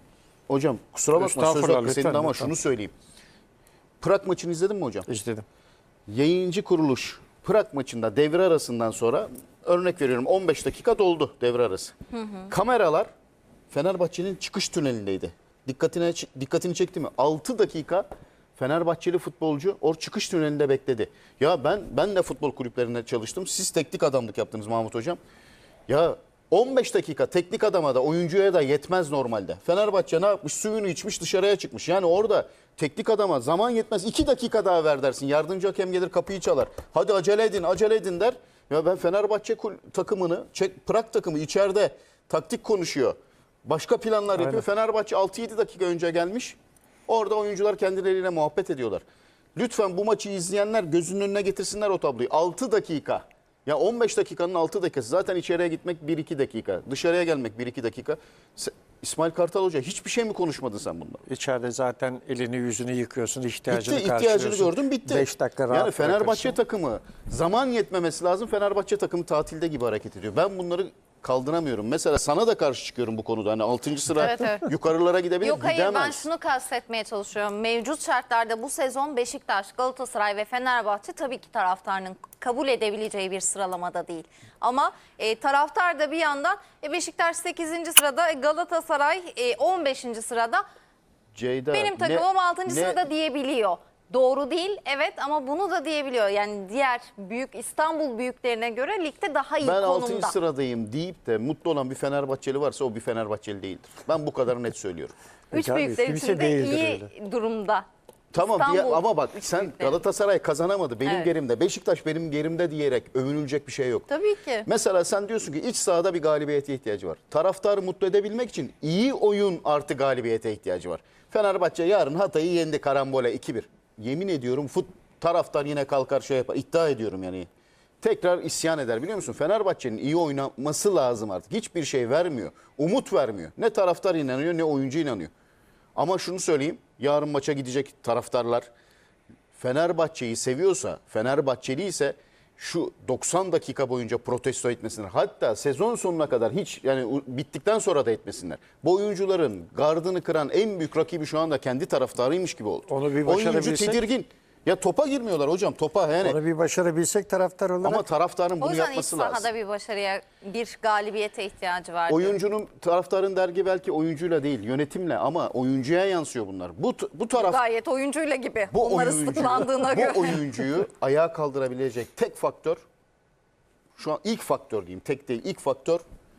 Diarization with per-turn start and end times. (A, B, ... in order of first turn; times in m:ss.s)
0:00.5-0:02.9 A
0:01.1-0:02.5 B
0:04.0-0:05.1 A
0:05.1-0:05.4 B
0:06.1-0:11.9 A
0:12.2-0:12.5 C
0:12.5-0:13.1 A
0:13.7-0:18.0 A
0:18.6-0:25.2 A
0:25.9-0:49.0 A
0:44.4-0:44.6 B
0:49.6-1:01.2 A
1:01.3-1:06.6 B
1:03.7-1:16.3 A
1:14.2-1:14.7 C
1:15.4-1:30.6 C
1:31.3-1:33.0 A
1:31.7-1:40.3 C
1:39.6-1:45.1 A
1:45.5-1:47.8 C
1:45.5-1:47.1 B
1:48.3-1:54.1 A
1:48.4-1:50.0 C
1:51.0-1:51.3 C
1:54.1-1:54.7 C
1:54.6-2:07.5 A
2:08.0-2:15.3 A
2:16.0-2:18.7 A
2:19.5-2:36.4 A
2:32.9-2:34.0 B
2:36.2-2:38.0 B
2:37.8-2:39.5 A
2:38.6-2:42.4 C
2:42.1-2:47.6 A
2:47.3-2:50.6 C
2:48.7-2:52.8 A
2:54.0-2:56.0 A